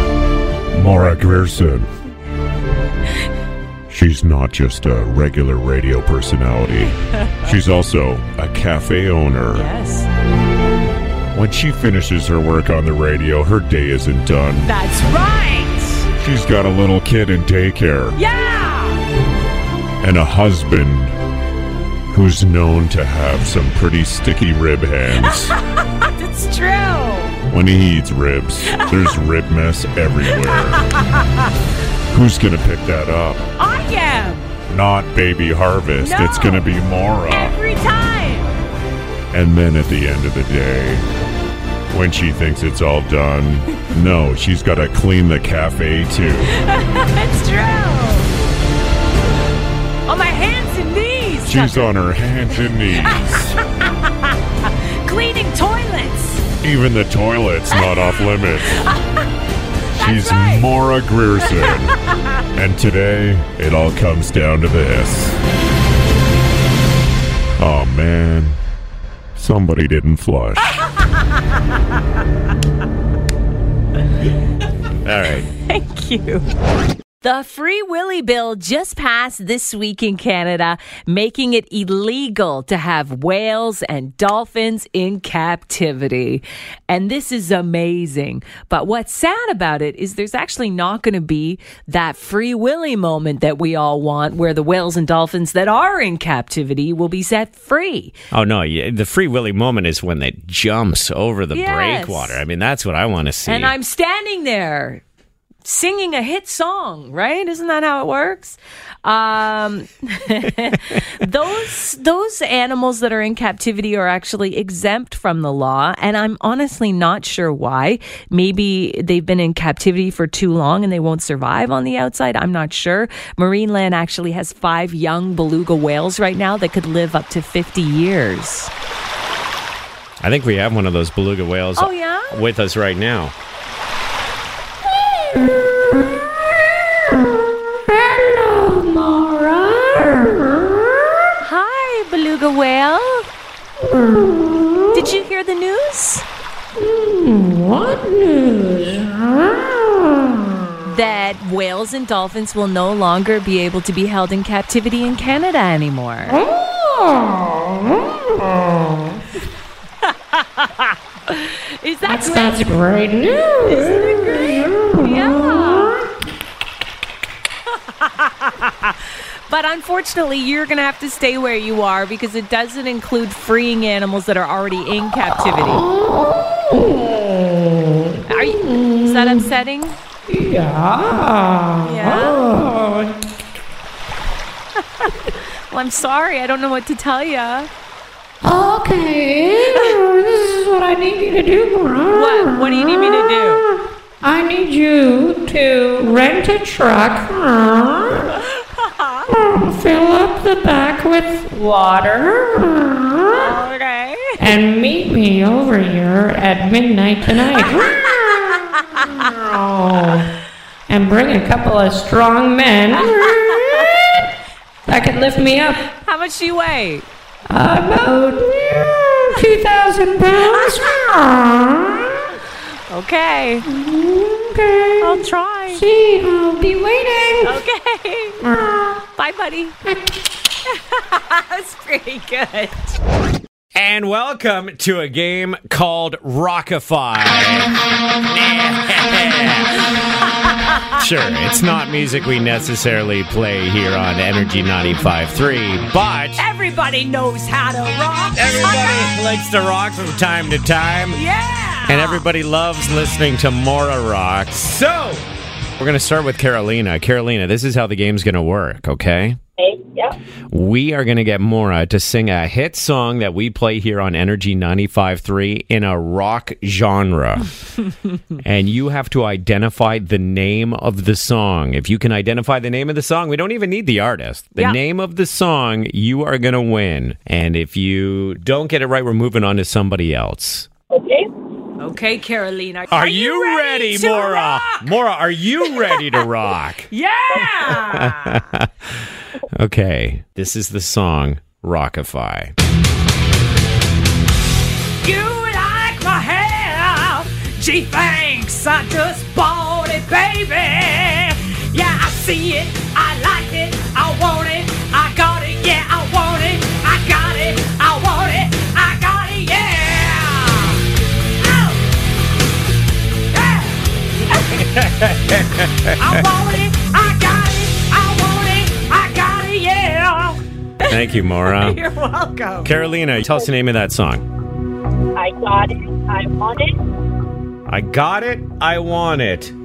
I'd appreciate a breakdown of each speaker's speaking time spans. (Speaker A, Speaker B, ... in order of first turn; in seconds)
Speaker A: 0.7-1.9, 3.9-9.7, 11.3-14.7, 16.2-18.2, 20.0-21.1, 22.1-25.5, 27.5-30.9, 32.1-33.4, 34.7-37.5, 39.3-41.0, 41.9-46.5, 51.4-53.6, 56.6-58.8, 59.9-61.9, 62.5-65.4, 67.6-68.6, 69.3-70.8
Speaker B: 7.0-7.5, 9.5-10.1, 14.7-16.1, 18.1-19.0, 25.2-27.3, 28.7-29.1, 30.3-31.5, 33.6-34.5, 36.0-36.7, 37.3-38.5, 46.5-48.3, 50.1-51.9, 53.0-56.4, 57.7-59.1, 59.9-60.7, 75.7-76.5, 77.2-98.1, 101.5-102.4, 103.5-105.0, 105.6-128.7, 131.8-132.3, 141.4-143.3, 144.9-146.2, 150.8-156.4, 160.1-160.7, 161.3-162.6, 163.7-165.9, 168.0-168.9, 169.5-175.8, 178.3-179.9, 181.8-182.4, 185.7-187.7, 192.1-193.6, 198.5-199.2, 203.3-204.3, 207.4-207.9, 213.0-213.9, 215.9-217.1, 220.5-220.8, 222.9-223.6, 225.0-225.8, 227.4-228.4, 229.1-229.8, 230.7-232.9, 246.4-249.1, 251.1-252.2, 281.8-284.8, 285.8-286.2, 286.9-288.4, 295.0-310.8, 311.4-311.8, 313.3-313.8, 316.0-322.7
Speaker C: 75.0-75.5, 98.3-103.7, 130.2-133.3, 233.7-237.7, 238.2-239.8, 240.9-246.4, 248.3-251.2, 251.9-255.2, 255.8-259.4, 260.5-267.5, 268.4-280.7, 282.9-286.9, 287.6-288.9, 289.5-292.5, 314.3-316.2, 320.9-321.8, 322.6-324.2, 327.7-329.5
Speaker D: 135.2-141.2, 143.8-145.0, 146.8-150.7, 156.3-159.2, 162.0-166.1, 175.7-179.5, 180.3-183.1, 188.4-198.3, 199.3-203.5, 204.4-210.2, 210.9-214.2, 214.9-215.8, 217.5-222.3, 223.6-227.6, 228.4-229.0
Speaker E: 259.6-260.1, 280.9-281.2, 325.2-326.7